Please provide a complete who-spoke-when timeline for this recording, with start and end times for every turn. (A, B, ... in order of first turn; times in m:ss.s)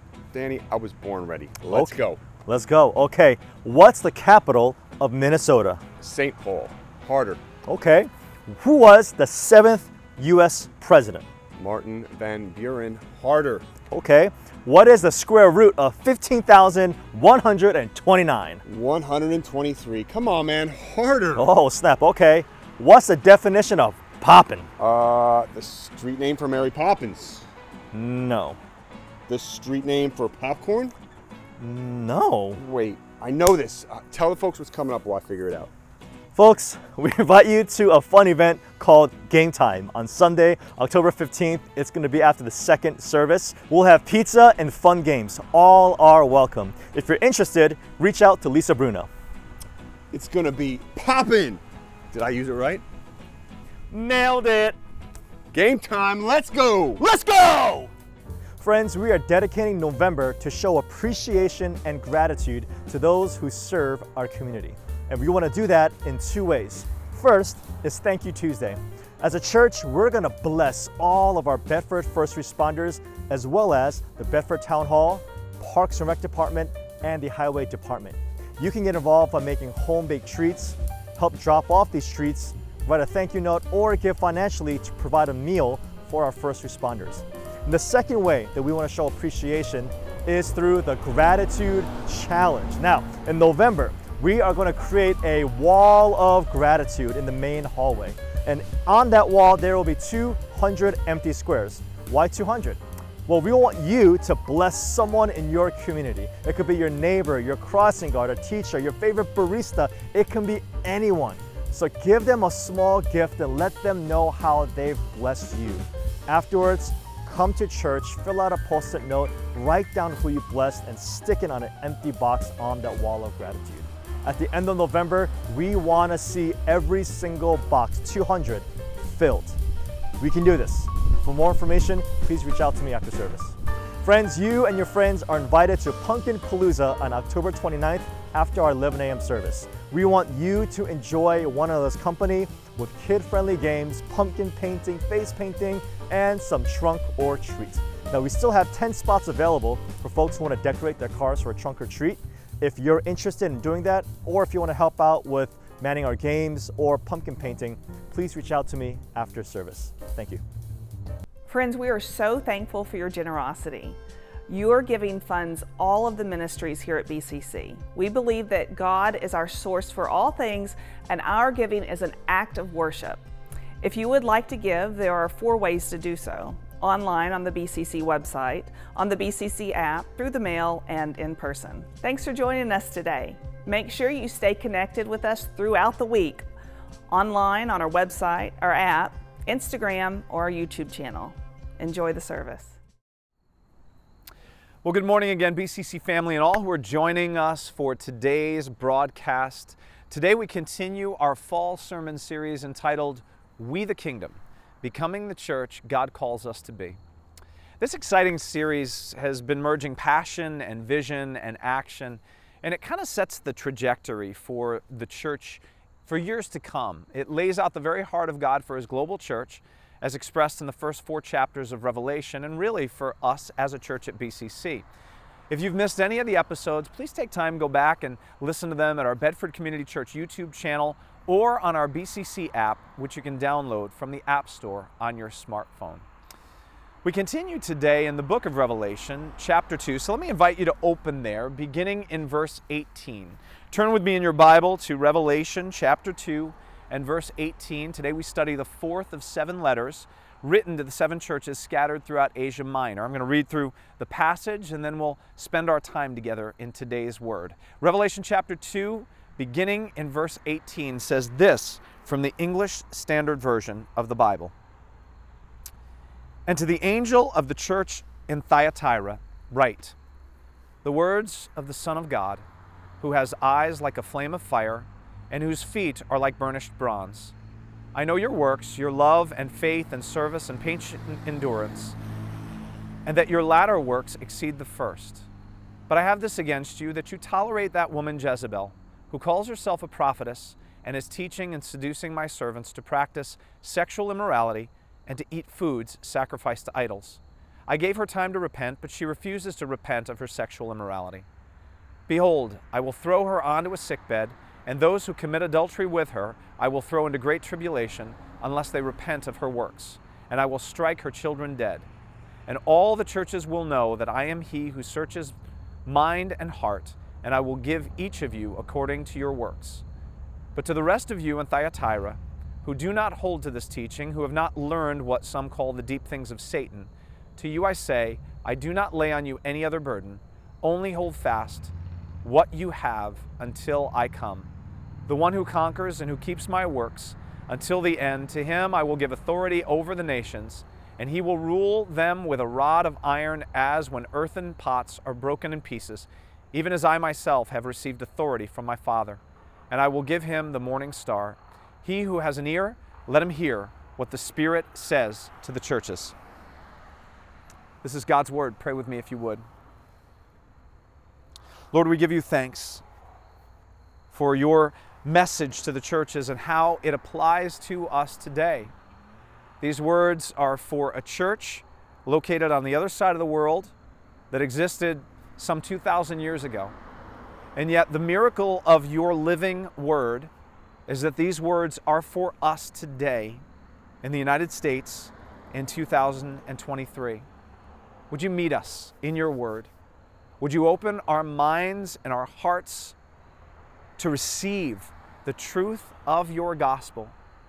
0:00.3-0:02.2 A
0:01.7-0:05.8 B
0:06.0-0:07.4 A
0:07.7-0:11.3 B
0:11.6-0:13.6 A
0:13.9-0:18.6 B
0:18.6-0:21.4 A
0:21.4-0:24.7 B
0:24.8-0:27.5 A
0:27.9-0:28.6 B
0:29.3-0:30.9 A
0:31.6-0:32.6 B
0:32.6-0:35.7 A
0:36.4-0:49.1 B
0:50.1-0:51.6 A
0:52.1-0:52.8 A
0:53.9-0:54.8 B
0:55.5-0:57.0 A
0:57.0-0:57.9 B
0:58.6-2:09.6 B
2:10.2-2:40.4 B
2:41.5-2:44.0 C
2:44.5-2:53.2 C
2:53.8-3:06.5 C
3:07.1-3:12.8 C
3:14.8-3:27.0 D
3:27.8-3:44.8 D
3:45.5-3:56.0 D
3:57.0-4:24.5 D
4:26.5-4:30.0 D
4:30.8-4:32.4 D
4:33.0-4:37.4 D
4:37.9-4:42.0 D
4:43.1-4:45.3 D
4:45.9-5:01.2 D
5:02.1-5:11.9 D
5:12.5-5:15.4 D
5:15.9-5:19.8 D
5:20.6-5:34.5 D
5:35.1-5:56.2 D
5:57.8-5:59.4 D
6:01.7-6:02.8 D
6:04.1-6:08.7 D
6:09.6-6:13.7 D
6:14.3-6:16.8 D
6:17.6-6:20.3 D
6:20.9-6:23.4 D
6:24.0-6:27.3 D
6:28.1-6:29.7 D
6:30.4-6:33.0 D
6:34.0-6:37.1 D